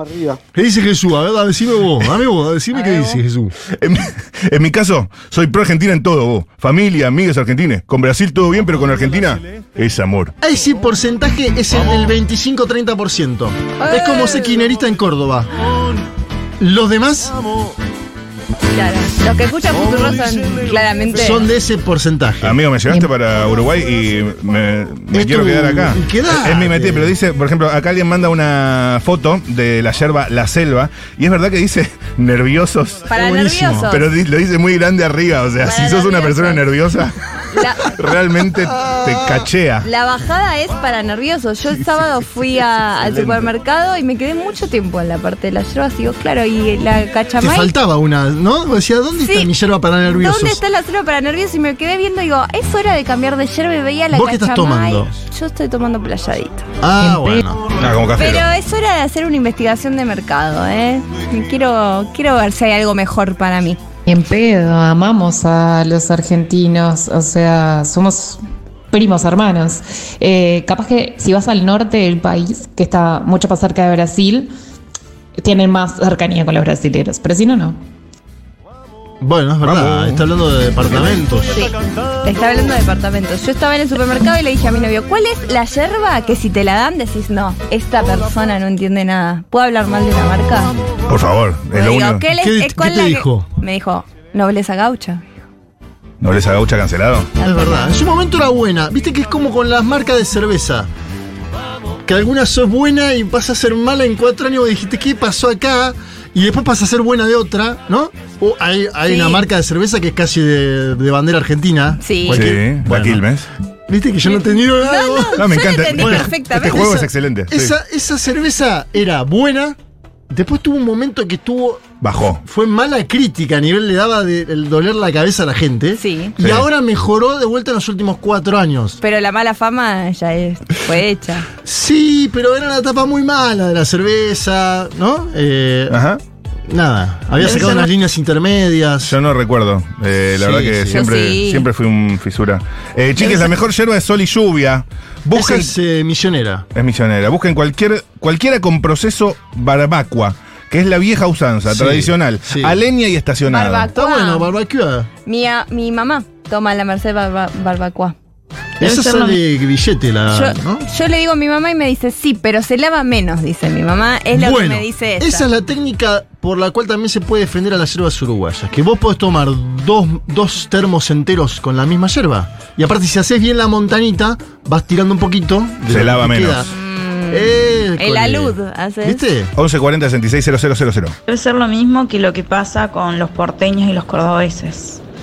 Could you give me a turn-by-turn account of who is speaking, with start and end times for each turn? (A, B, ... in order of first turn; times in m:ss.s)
0:00.5-0:03.6 A
0:02.7-0:03.2 B
0:03.7-0:10.3 C
0:10.4-0:15.5 A
0:13.8-0:14.6 B
0:16.6-0:17.4 A
0:18.7-0:21.5 B
0:21.1-0:22.6 A
0:22.4-0:33.1 C
0:25.1-0:27.1 A
0:33.1-0:34.1 B
0:33.1-0:33.9 A
0:33.9-0:37.2 C
0:35.6-0:36.6 B
0:37.5-0:38.0 B
0:37.8-0:39.9 C
0:38.8-0:39.1 A
0:39.8-0:47.7 B
0:47.4-0:50.6 A
0:49.2-0:49.5 B
0:50.1-0:56.7 B
0:54.1-0:55.1 A
0:56.8-0:57.7 A
0:57.0-0:57.4 D
0:57.8-0:58.5 C
0:58.2-1:03.8 B
1:04.1-1:14.5 D
1:15.4-1:17.8 D
1:19.2-1:21.7 A
1:19.6-1:20.2 C
1:22.2-1:30.7 B
1:31.1-1:32.3 C
1:31.7-1:35.2 B
1:32.4-1:33.5 A
1:36.2-1:37.3 C
1:37.4-1:37.9 B
1:37.4-1:40.9 A
1:42.1-1:53.2 A
1:49.1-1:49.4 B
1:52.0-1:52.5 B
1:52.3-1:53.5 C
1:53.9-1:59.8 A
1:54.2-1:56.9 B
1:55.4-1:57.8 C
2:00.3-2:01.9 A
2:02.0-2:02.4 C
2:02.4-2:09.0 A
2:06.0-2:06.4 B
2:06.4-2:06.7 C
2:09.0-2:11.5 B
2:11.6-2:16.0 A
2:15.9-2:16.2 C
2:16.7-2:19.2 A
2:17.4-2:17.9 E
2:19.0-2:25.7 C
2:20.3-2:21.0 A
2:20.9-2:21.7 B
2:23.2-2:23.5 A
2:25.3-2:26.7 A
2:26.8-2:33.9 C
2:31.7-2:32.8 A
2:33.5-2:34.5 B
2:33.9-2:35.1 A
2:35.3-2:38.2 B
2:38.8-2:40.9 A
2:38.8-2:39.4 E
2:40.3-2:45.5 B
2:44.3-2:56.7 A
2:55.9-2:56.7 C
2:56.7-2:59.2 B
2:57.3-2:59.5 A
2:59.6-3:01.2 C
3:01.3-3:05.0 E